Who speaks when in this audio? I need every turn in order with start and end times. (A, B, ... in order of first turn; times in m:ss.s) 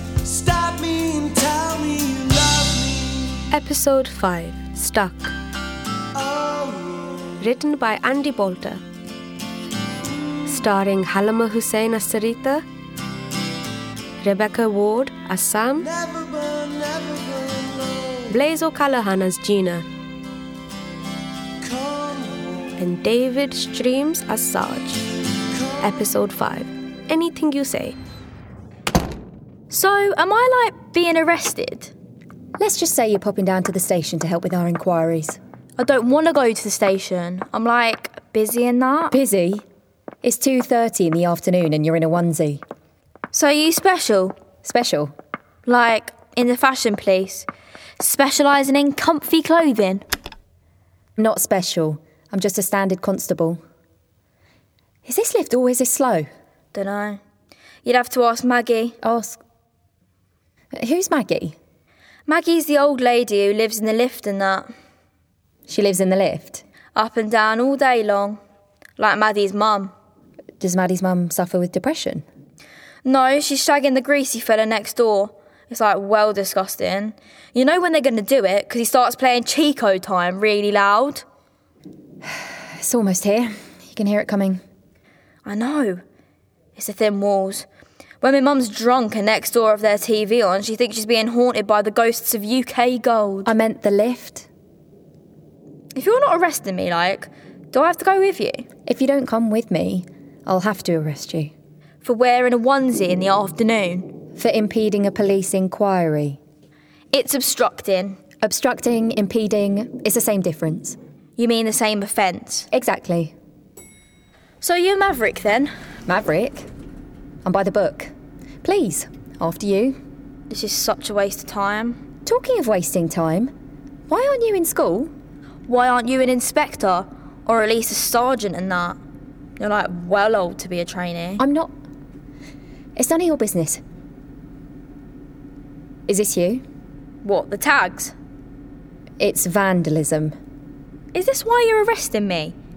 0:00.2-0:03.4 A
0:03.5-0:05.3 B
0:06.1-0:07.3 A
0:07.4-0:08.8 B
0:10.4-0:12.6 B
0:14.2-0:15.9 B
0:15.8-0:18.4 A
0:18.3-0:19.8 B
0:21.6-0:22.7 A
0:22.8-0:25.0 B
0:25.5-0:25.9 A
0:25.8-0:28.0 B
0:29.7-0:31.9 C
0:32.6-0:35.4 D
0:35.8-0:39.2 C
0:39.1-0:39.6 D
0:40.2-0:42.6 D
0:43.3-0:44.4 C
0:44.6-0:45.1 D
0:45.6-0:47.5 C
0:48.0-0:50.0 C
0:51.2-0:53.6 D
0:55.0-0:56.3 D
0:56.7-0:57.2 C
0:57.8-0:59.0 C
0:59.0-0:59.4 D
1:00.7-1:01.6 D
1:02.2-1:04.7 C
1:05.7-1:06.6 D
1:06.9-1:08.4 C
1:09.0-1:09.9 C
1:10.6-1:12.2 D
1:13.0-1:21.2 C
1:22.2-1:24.6 D
1:25.4-1:26.0 C
1:26.8-1:27.6 C
1:28.2-1:33.5 C
1:33.4-1:34.5 D
1:35.9-1:38.7 C
1:38.8-1:41.5 D
1:42.0-1:44.2 C
1:44.4-1:46.4 D
1:47.1-1:48.2 C
1:48.4-1:51.0 D
1:51.4-1:52.7 C
1:52.7-1:53.3 D
1:54.6-1:55.7 C
1:56.1-1:56.7 D
1:57.4-1:58.1 D
1:58.6-2:00.0 D
2:00.5-2:02.0 C
2:02.2-2:03.5 D
2:04.1-2:05.1 D
2:05.7-2:09.0 C
2:09.6-2:11.4 C
2:11.4-2:11.7 D
2:13.0-2:13.8 D
2:16.1-2:16.6 D
2:17.2-2:18.1 C
2:19.2-2:20.3 D
2:21.1-2:22.6 C